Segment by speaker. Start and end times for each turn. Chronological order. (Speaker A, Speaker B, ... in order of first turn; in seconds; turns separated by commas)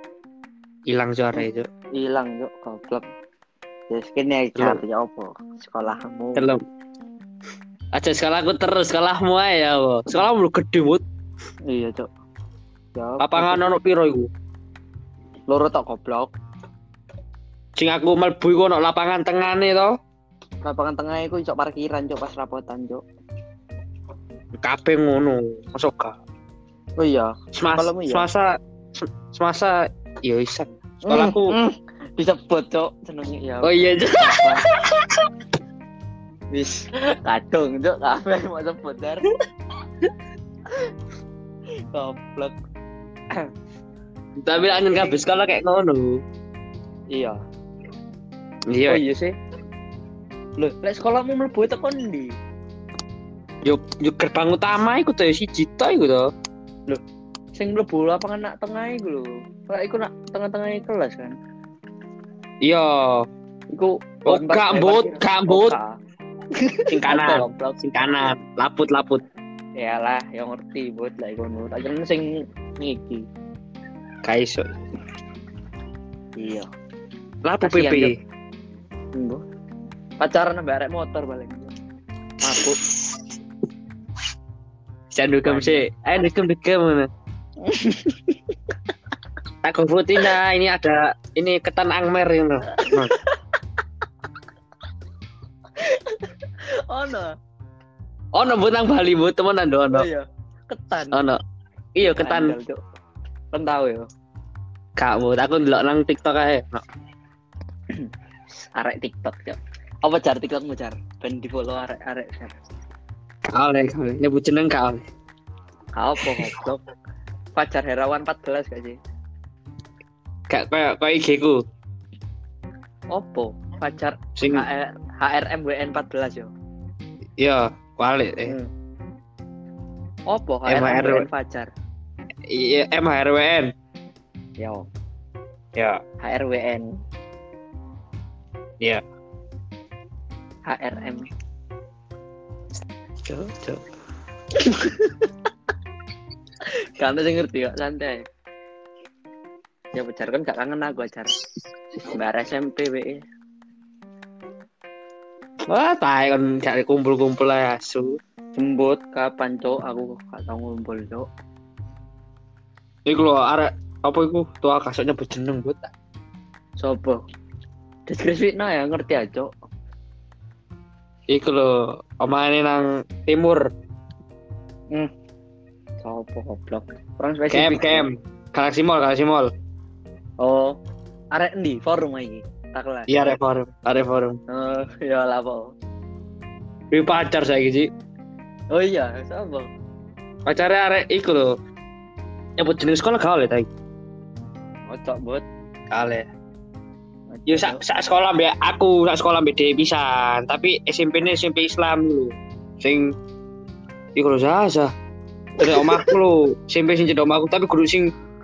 Speaker A: 0.9-1.7, Speaker B: 2.0-3.0, Speaker B: 3.9-6.5, Speaker A: 4.6-4.8, Speaker A: 6.3-6.6, Speaker A: 7.9-11.0, Speaker B: 11.7-12.1, Speaker B: 13.0-13.7, Speaker A: 13.2-14.3, Speaker B: 15.5-16.3, Speaker A: 17.8-19.9, Speaker B: 20.6-23.0, Speaker A: 24.6-26.1, Speaker B: 27.0-28.3, Speaker A: 27.6-31.6, Speaker B: 31.1-34.7, Speaker A: 33.6-35.3, Speaker B: 36.5-39.3, Speaker B: 41.9-42.6, Speaker A: 44.4-46.2, Speaker B: 44.7-45.2, Speaker B: 47.1-47.4, Speaker A: 48.7-49.0, Speaker B: 48.9-49.4, Speaker B: 50.6-52.3, Speaker A: 53.6-56.3, Speaker B: 57.6-61.4, Speaker A: 62.6-63.3, Speaker B: 63.7-66.0, Speaker A: 64.3-65.8, Speaker B: 66.6-68.3, Speaker A: 66.9-69.2, Speaker B: 69.8-73.3, Speaker A: 74.2-74.7, Speaker B: 76.4-76.7, Speaker A: 77.4-78.1, Speaker B: 77.6-78.1, Speaker B: 79.2-79.4, Speaker B: 80.2-81.7, Speaker B: 82.4-82.8, Speaker A: 82.5-82.9, Speaker A: 85.1-87.1, Speaker B: 85.5-85.8, Speaker B: 87.6-88.5, Speaker A: 89.6-93.1, Speaker B: 92.8-93.4, Speaker B: 95.8-96.3, Speaker B: 96.9-97.3, Speaker A: 98.3-100.1, Speaker B: 99.9-101.2, Speaker A: 101.1-101.4, Speaker A: 102.0-102.6, Speaker B: 102.0-102.8, Speaker B: 103.5-104.1, Speaker A: 105.0-106.8, Speaker B: 108.8-112.6, Speaker A: 113.5-115.0, Speaker B: 116.0-116.8, Speaker A: 116.2-116.5, Speaker B: 117.6-119.0, Speaker A: 120.5-121.6, Speaker B: 123.1-126.5, Speaker A: 124.4-124.7, Speaker A: 127.4-128.6, Speaker B: 128.4-128.7, Speaker B: 130.3-131.7, Speaker A: 130.7-131.3, Speaker A: 132.5-133.7, Speaker B: 134.6-134.9, Speaker A: 135.8-136.0, Speaker B: 136.2-136.9, Speaker B: 140.7-141.3, Speaker A: 143.2-143.8, Speaker B: 144.6-145.3, Speaker B: 147.0-148.2, Speaker B: 149.9-151.4, Speaker B: 152.1-153.2, Speaker A: 155.7-158.2, Speaker B: 158.6-161.3, Speaker A: 163.1-165.9, Speaker B: 166.8-167.2, Speaker B: 168.1-169.5, Speaker A: 171.3-173.7, Speaker B: 176.0-178.1, Speaker A: 177.5-179.5, Speaker B: 180.4-180.8, Speaker B: 181.3-183.4, Speaker A: 183.1-184.4, Speaker B: 184.5-185.7, Speaker A: 186.9-187.9, Speaker B: 188.7-189.7, Speaker A: 190.5-191.5, Speaker A: 192.6-193.7, Speaker B: 194.9-195.4, Speaker A: 195.9-196.3, Speaker B: 197.3-197.8, Speaker A: 197.5-203.1, Speaker A: 204.2-204.9, Speaker A: 205.6-208.1, Speaker B: 205.6-206.1